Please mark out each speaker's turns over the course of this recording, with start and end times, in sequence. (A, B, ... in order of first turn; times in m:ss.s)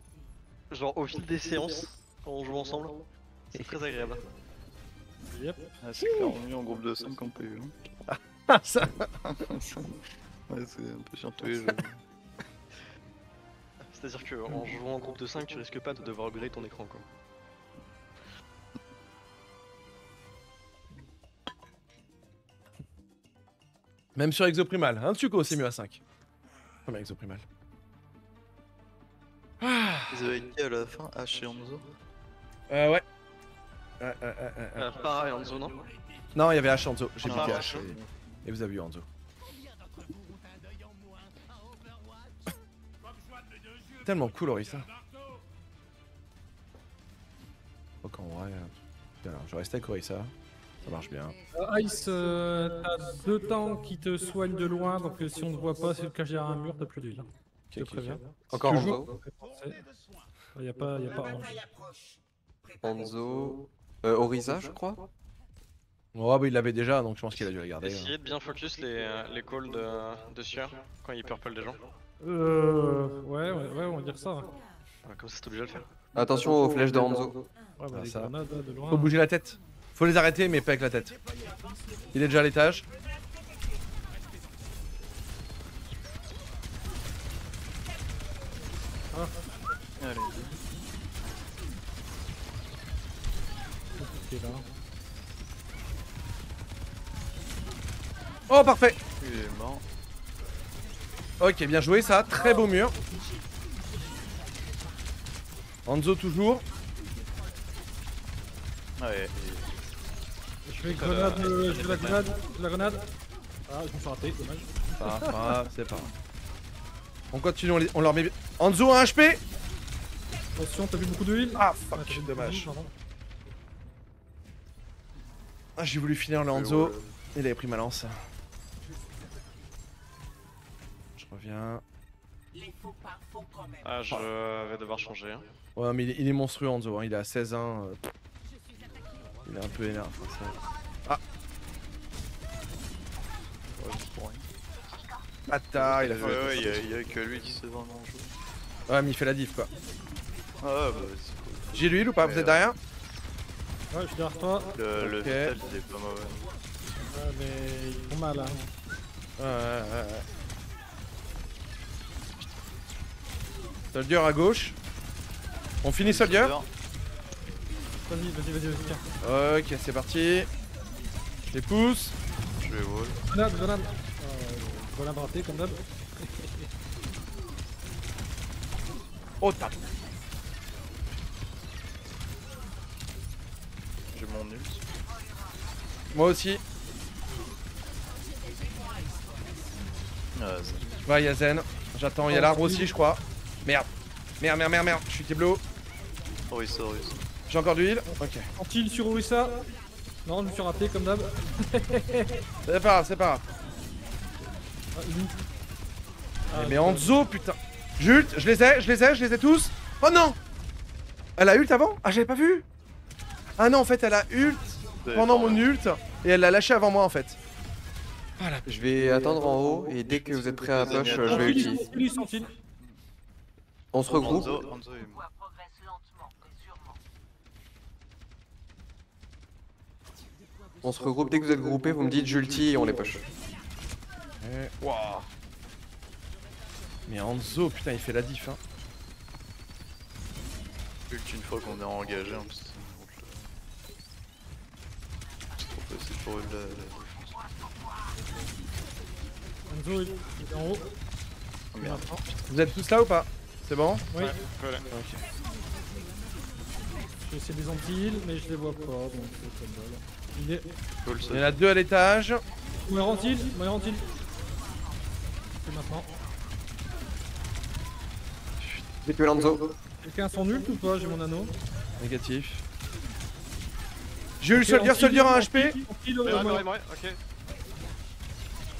0:00.7-0:03.0 A
0:03.5-0:04.2 A
0:05.3-0:05.6 B
0:05.8-0:07.7 C
0:06.0-0:06.4 D
0:08.1-0:09.1 D
0:09.2-0:12.0 C
0:13.9-0:17.0 A
0:24.2-0:26.0 D
0:26.8-0:27.4 D
0:29.6-0:30.3 D
0:30.1-0:31.9 C
0:32.7-0:33.0 D
0:34.0-0:34.9 D
0:34.8-0:35.8 A
0:36.3-0:39.1 D
0:37.2-0:38.2 C
0:37.2-0:37.9 A
0:44.0-0:44.9 D
0:48.0-0:51.4 D
0:51.5-0:58.3 B
0:57.7-0:59.0 D
0:58.5-0:59.1 E
0:59.2-0:59.8 B
1:00.5-1:01.7 B
1:02.8-1:05.0 E
1:06.1-1:08.1 D
1:07.8-1:11.8 A
1:12.2-1:14.5 B
1:15.0-1:15.9 A
1:16.1-1:17.4 E
1:17.8-1:19.1 B
1:17.9-1:18.3 D
1:18.9-1:21.2 D
1:22.1-1:22.8 D
1:29.1-1:29.4 B
1:30.0-1:30.6 C
1:34.0-1:34.6 B
1:38.5-1:39.0 D
1:39.2-1:39.8 C
1:41.4-1:43.0 D
1:45.8-1:46.6 D
1:49.0-1:49.8 C
1:50.6-1:53.1 B
1:50.8-1:52.2 A
1:53.7-1:55.6 B
1:55.0-1:56.1 D
1:57.3-1:59.4 D
2:00.6-2:02.9 B
2:01.6-2:02.7 D
2:05.8-2:08.1 D
2:11.2-2:11.8 D
2:13.8-2:15.4 A
2:15.8-2:18.0 D
2:19.4-2:21.2 D
2:23.7-2:24.4 C
2:25.5-2:26.8 D
2:25.7-2:28.3 C
2:28.9-2:29.7 D
2:30.6-2:32.7 C
2:31.7-2:32.8 D
2:33.9-2:34.8 B
2:34.8-2:36.5 C
2:35.0-2:35.5 D
2:37.0-2:38.7 B
2:39.4-2:40.2 D
2:43.9-2:44.8 D
2:45.8-2:46.5 D
2:46.0-2:46.7 C
2:48.1-2:49.0 B
2:49.2-2:50.5 D
2:51.5-2:52.2 D
2:52.6-2:53.2 C
2:53.3-2:56.7 B
2:59.4-2:59.8 D
3:04.1-3:04.8 C
3:06.1-3:06.6 D
3:10.3-3:10.9 C
3:11.0-3:15.6 D
3:12.3-3:12.9 B
3:16.5-3:17.2 C
3:17.5-3:18.4 D
3:18.1-3:19.7 B
3:20.2-3:22.4 B
3:22.6-3:23.4 D
3:25.0-3:25.4 B
3:26.5-3:27.1 B
3:26.5-3:30.4 D
3:31.4-3:32.6 D
3:33.6-3:37.4 D
3:35.0-3:35.6 C
3:38.4-3:38.7 D
3:38.6-3:41.9 E
3:40.7-3:41.7 C
3:41.2-3:42.6 B
3:43.9-3:44.6 E
3:44.0-3:45.2 C
3:50.8-3:53.3 E
3:54.4-3:55.3 D
3:57.0-3:58.6 D
4:01.1-4:03.5 C
4:05.5-4:07.4 C
4:09.7-4:10.9 B
4:11.7-4:12.6 C
4:11.8-4:12.2 B
4:12.5-4:14.0 D
4:14.2-4:14.9 A
4:14.9-4:15.2 D
4:17.2-4:20.7 B
4:21.0-4:21.5 A
4:21.3-4:22.4 D
4:22.8-4:24.1 B
4:25.6-4:26.2 B
4:29.0-4:29.7 E
4:30.0-4:31.5 B
4:32.0-4:32.6 D
4:34.4-4:35.8 D
4:34.5-4:36.6 B
4:36.2-4:37.2 A